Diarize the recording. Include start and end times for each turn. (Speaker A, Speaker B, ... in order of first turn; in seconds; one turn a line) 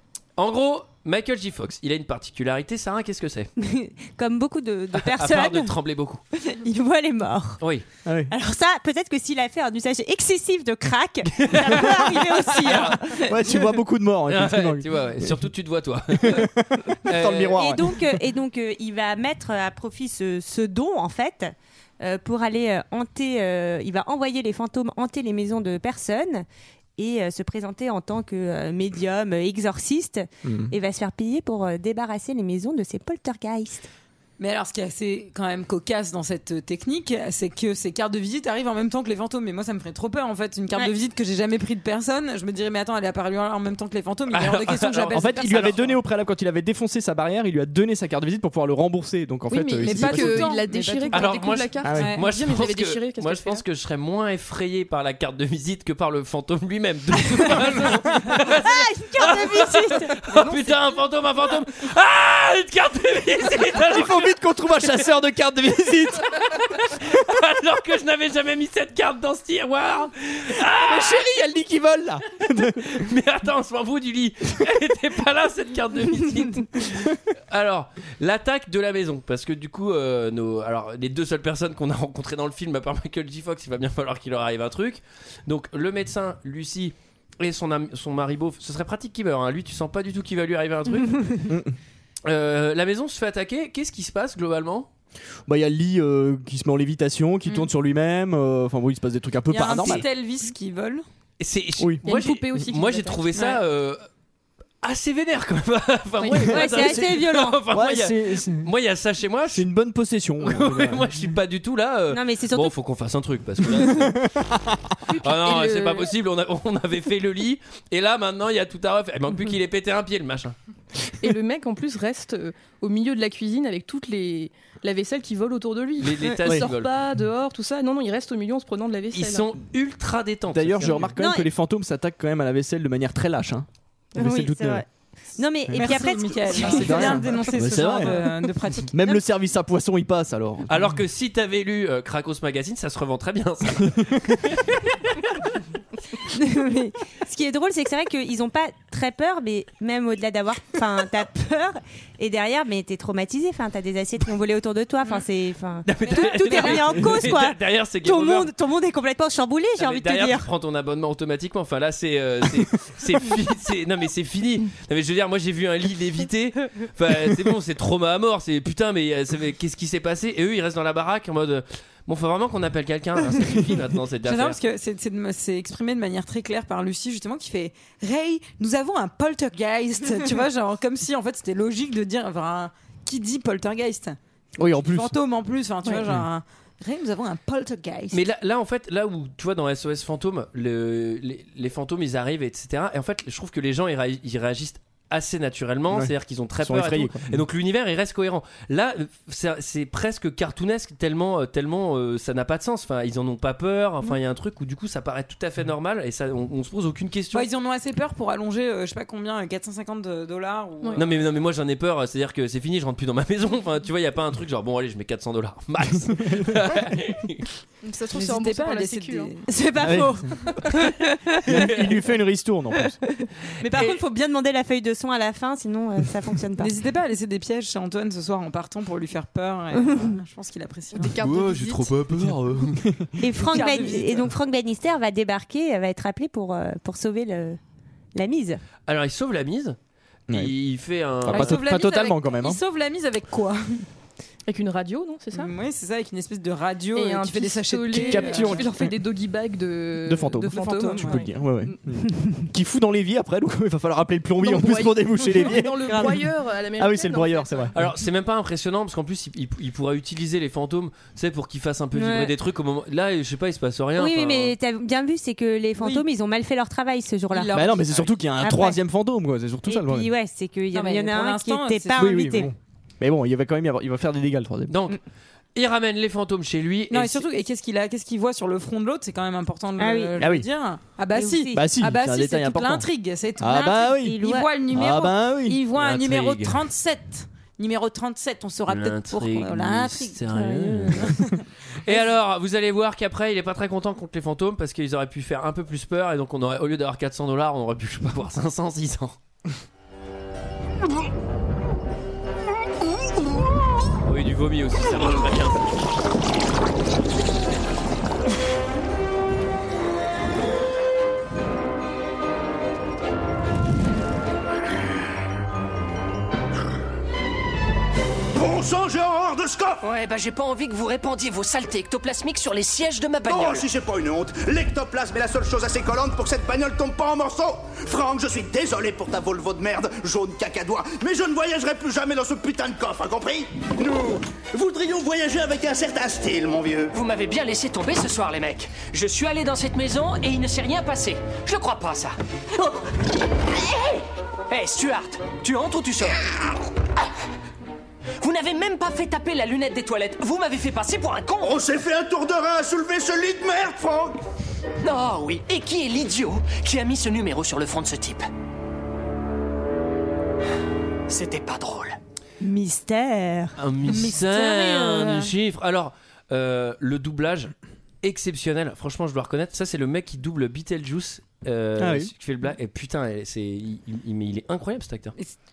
Speaker A: 0.4-3.5
Speaker B: 3.6-5.8
Speaker A: 4.9-6.2
Speaker B: 6.4-7.6
Speaker C: 8.0-8.3
Speaker B: 8.3-13.3
Speaker A: 11.4-13.0
Speaker C: 13.1-15.5
Speaker A: 14.3-16.5
Speaker C: 16.2-18.0
Speaker A: 17.1-17.6
Speaker B: 17.5-26.4
Speaker B: 27.0-33.9
Speaker C: 30.4-30.7
Speaker D: 34.4-46.0
Speaker A: 44.3-45.7
Speaker C: 45.1-50.5
Speaker E: 49.5-53.6
Speaker D: 49.8-52.3
Speaker A: 51.1-64.3
Speaker C: 51.8-52.1
Speaker B: 58.5-60.2
Speaker C: 63.8-66.4
Speaker A: 66.5-71.2
Speaker C: 70.8-73.0
Speaker A: 72.8-91.2
Speaker B: 91.0-91.4
Speaker C: 91.5-91.8
Speaker A: 92.2-94.9
Speaker C: 95.5-100.0
Speaker D: 99.5-101.0
Speaker A: 101.4-104.0
Speaker C: 101.8-102.0
Speaker E: 102.0-103.3
Speaker A: 104.8-109.7
Speaker C: 106.3-108.7
Speaker B: 106.3-107.6
Speaker C: 109.5-111.1
Speaker A: 110.4-114.2
Speaker B: 112.1-112.7
Speaker C: 113.6-114.8
Speaker E: 115.1-116.1
Speaker A: 115.2-120.5
Speaker E: 121.2-129.5
Speaker A: 126.0-127.0
Speaker A: 129.1-131.1
Speaker C: 130.5-134.8
Speaker B: 131.2-131.5
Speaker B: 134.2-137.3
Speaker D: 135.8-138.9
Speaker C: 136.7-138.2
Speaker C: 138.9-140.9
Speaker A: 140.7-145.2
Speaker C: 143.8-144.1
Speaker B: 146.3-160.5
Speaker A: 155.8-158.5
Speaker D: 156.1-156.8
Speaker A: 159.8-174.6
Speaker D: 174.2-184.2
Speaker C: 184.6-185.1
Speaker D: 184.7-188.2
Speaker A: 188.1-207.5
Speaker C: 195.9-197.4
Speaker D: 207.3-211.2
Speaker A: 210.9-217.5
Speaker C: 216.1-216.4
Speaker F: 217.8-219.3
Speaker D: 218.1-219.4
Speaker B: 219.4-220.3
Speaker C: 219.8-220.3
Speaker B: 221.0-221.4
Speaker A: 221.4-221.9
Speaker C: 221.4-222.9
Speaker B: 223.6-226.7
Speaker D: 226.6-231.1
Speaker B: 229.8-230.1
Speaker F: 230.9-231.9
Speaker A: 231.1-232.8
Speaker C: 232.1-233.1
Speaker B: 233.2-237.6
Speaker D: 233.5-234.3
Speaker B: 238.1-238.6
Speaker A: 238.9-239.8
Speaker C: 240.3-240.5
Speaker A: 240.3-241.6
Speaker C: 241.2-242.6
Speaker D: 241.3-243.8
Speaker E: 244.5-245.5
Speaker D: 245.3-248.7
Speaker E: 246.9-251.3
Speaker C: 247.9-248.9
Speaker C: 250.1-256.2
Speaker D: 250.4-251.2
Speaker E: 254.4-257.7
Speaker C: 256.8-257.9
Speaker A: 257.7-264.6
Speaker B: 261.9-262.3
Speaker B: 263.9-267.7
Speaker D: 265.8-266.1
Speaker D: 267.3-267.8
Speaker C: 267.5-270.1
Speaker B: 268.4-268.8
Speaker B: 269.7-272.5
Speaker D: 270.7-272.4
Speaker C: 272.0-274.7
Speaker A: 274.7-275.0
Speaker A: 275.5-277.2
Speaker D: 276.9-290.2
Speaker B: 279.8-280.2
Speaker C: 280.2-280.4
Speaker B: 281.1-281.7
Speaker C: 281.5-285.6
Speaker B: 283.8-284.5
Speaker A: 285.8-286.6
Speaker A: 288.7-291.2
Speaker B: 290.3-291.1
Speaker D: 291.0-291.4
Speaker A: 291.8-299.1
Speaker A: 304.0-305.6
Speaker G: 318.3-319.8
Speaker H: 319.8-323.7
Speaker G: 323.2-336.9
Speaker H: 336.9-342.7
Speaker H: 344.5-346.2
Speaker H: 348.2-351.6
Speaker G: 351.4-354.2
Speaker H: 354.8-358.3
Speaker H: 361.1-362.0
Speaker B: 362.4-363.5
Speaker A: 363.6-375.1
Speaker D: 363.9-365.1
Speaker B: 364.4-365.3
Speaker C: 371.8-372.1